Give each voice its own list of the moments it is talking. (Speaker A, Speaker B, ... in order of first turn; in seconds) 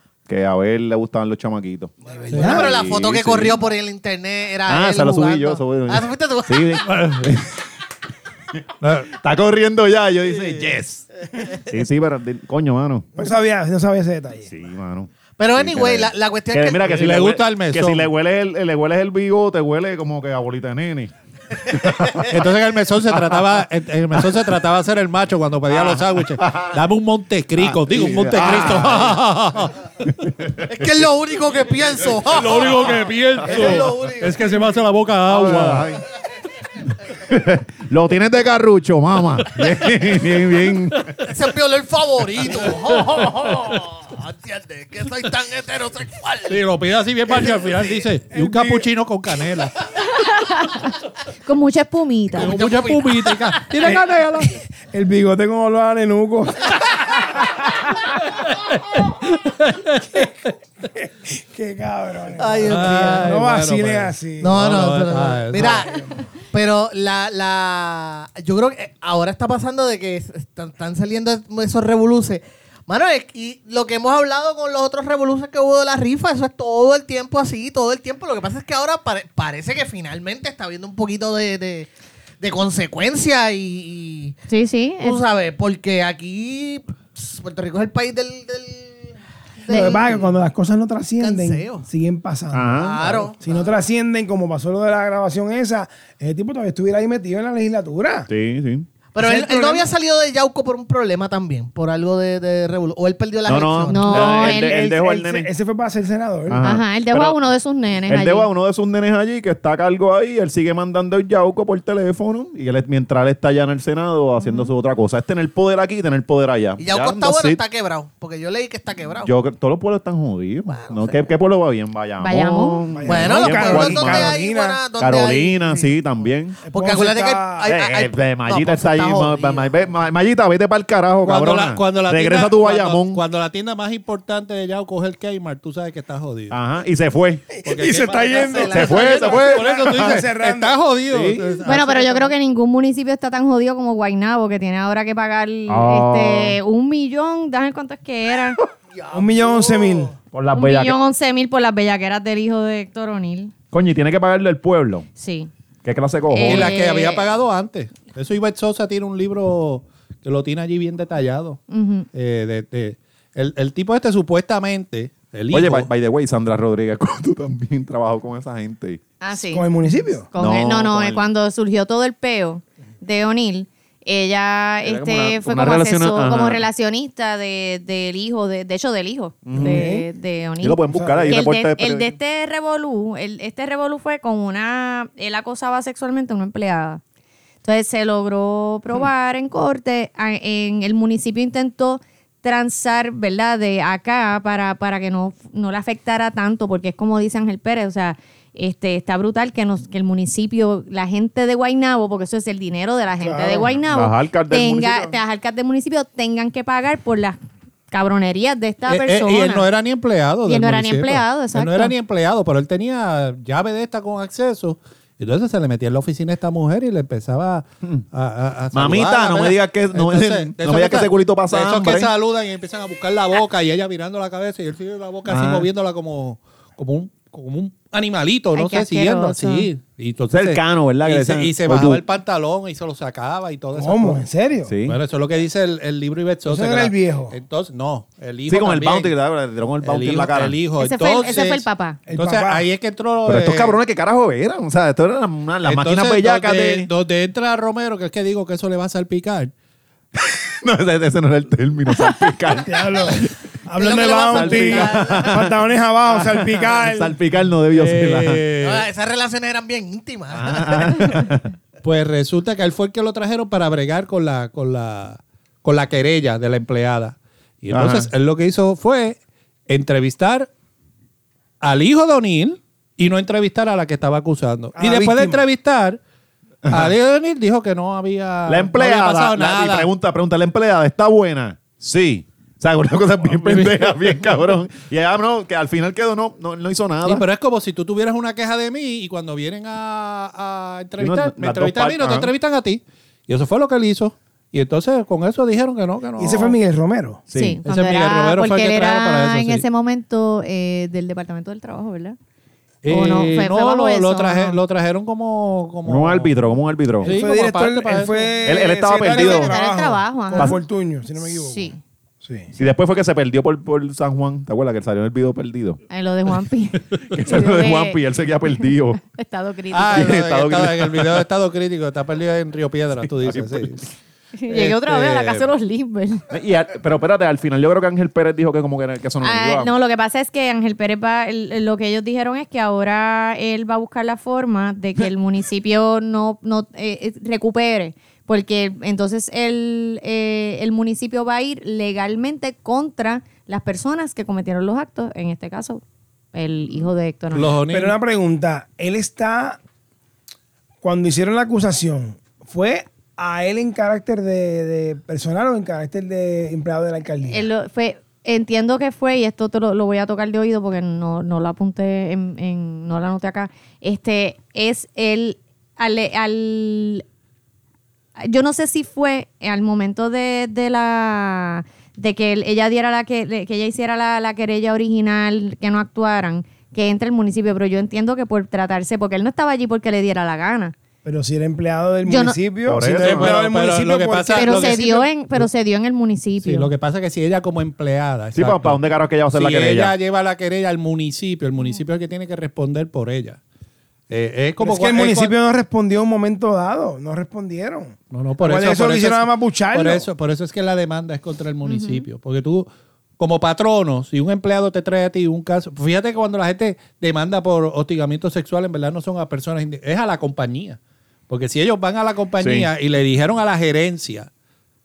Speaker A: 0.2-3.6, 4.7-7.6, 8.5-11.1, 11.6-13.2, 14.5-22.3, 23.1-24.5, 25.7-26.8, 27.6-29.2, 30.1-30.7, 33.4-33.8, 35.3-36.0, 37.2-41.1, 92.5-93.3, 98.3-98.9, 103.5-105.5, 106.5-107.4, 108.1-117.6, 119.2-124.4, 125.0-126.6, 127.7-133.2, 136.5-137.5, 138.7-140.2, 141.1-141.6, 145.7-146.6, 150.3-151.0, 153.7-155.1, 155.8-156.7, 165.5-169.0, 170.4-171.3, 174.8-176.6, 179.4-179.9, 180.6-182.1, 203.9-205.2, 218.7-222.1, 225.3-225.7, 230.3-232.0, 234.7-235.0, 238.5-240.6, 243.2-246.9, 250.2-253.3, 253.9-255.5, 256.1-258.4, 260.3-261.5, 267.7-268.1, 276.7-276.9, 278.5-287.2, 291.0-292.3, 297.3-297.6, 305.9-307.1, 308.4-309.5, 312.6-315.8, 317.1-319.0, 319.9-321.2, 323.1-323.8, 326.3-329.7, 382.6-383.4, 388.3-389.9, 412.4-412.7
Speaker B: 2.2-6.8, 15.4-17.1, 30.6-34.6, 41.2-46.6, 47.3-48.0, 52.4-53.7, 62.4-63.3, 64.4-81.9, 82.4-84.4, 85.0-90.3, 91.2-91.8, 92.7-93.8, 99.1-104.3, 116.8-119.3, 120.7-121.2, 123.0-125.9, 126.7-129.8, 138.2-139.3, 148.9-150.1, 253.8-255.5, 258.6-261.0
Speaker C: 2.2-2.7, 13.2-14.5, 48.3-48.9, 53.8-57.6, 61.0-64.6, 65.5-66.2, 89.7-92.8, 93.4-98.3, 99.2-99.9, 104.2-106.7, 122.9-124.8, 126.7-127.7, 137.6-140.8, 149.1-150.1, 169.4-170.3, 179.5-180.1, 180.9-181.4, 203.2-203.7, 233.7-234.7, 236.4-237.4, 242.1-242.7, 252.6-257.2, 274.8-275.4, 296.2-297.2, 307.0-311.7, 312.2-312.5, 347.7-349.6, 350.8-357.5, 381.0-384.9, 394.6-400.1
Speaker D: 2.3-2.6, 6.9-7.3, 8.8-9.1, 16.9-18.1, 22.2-29.7, 32.3-35.9, 42.4-43.8, 46.5-49.7, 52.3-54.6, 58.4-60.3, 62.6-65.8, 131.2-136.6, 137.6-142.3, 156.4-161.6, 162.1-165.9, 208.9-234.2, 234.8-239.1, 239.8-243.8, 245.6-249.5, 257.7-258.9, 261.8-270.5, 271.6-276.0, 276.7-279.9, 283.3-284.0, 287.0-296.6, 297.6-299.6, 302.8-306.3, 307.0-308.4, 319.7-323.9, 324.5-325.5, 347.3-347.9, 382.9-385.5, 386.4-393.4, 394.1-395.3, 398.1-402.7, 403.2-414.3
Speaker E: 50.0-50.9, 51.4-52.5, 84.5-85.2, 89.7-90.0, 103.9-104.8, 106.6-108.5, 114.4-114.7, 122.2-122.8, 141.6-148.6, 150.5-153.5, 155.2-155.5, 156.3-157.3, 161.7-162.1, 169.2-169.7, 170.3-187.0, 187.6-207.4, 207.9-209.7, 210.4-211.9, 228.5-229.7, 240.8-242.0, 297.3-302.2, 302.9-304.6, 309.0-310.6, 311.2-311.8, 315.9-318.0, 319.0-320.2, 324.4-326.2, 329.2-345.8, 346.3-347.5, 357.3-367.0, 368.2-380.7, 382.1-382.4, 384.3-386.7, 401.6-402.1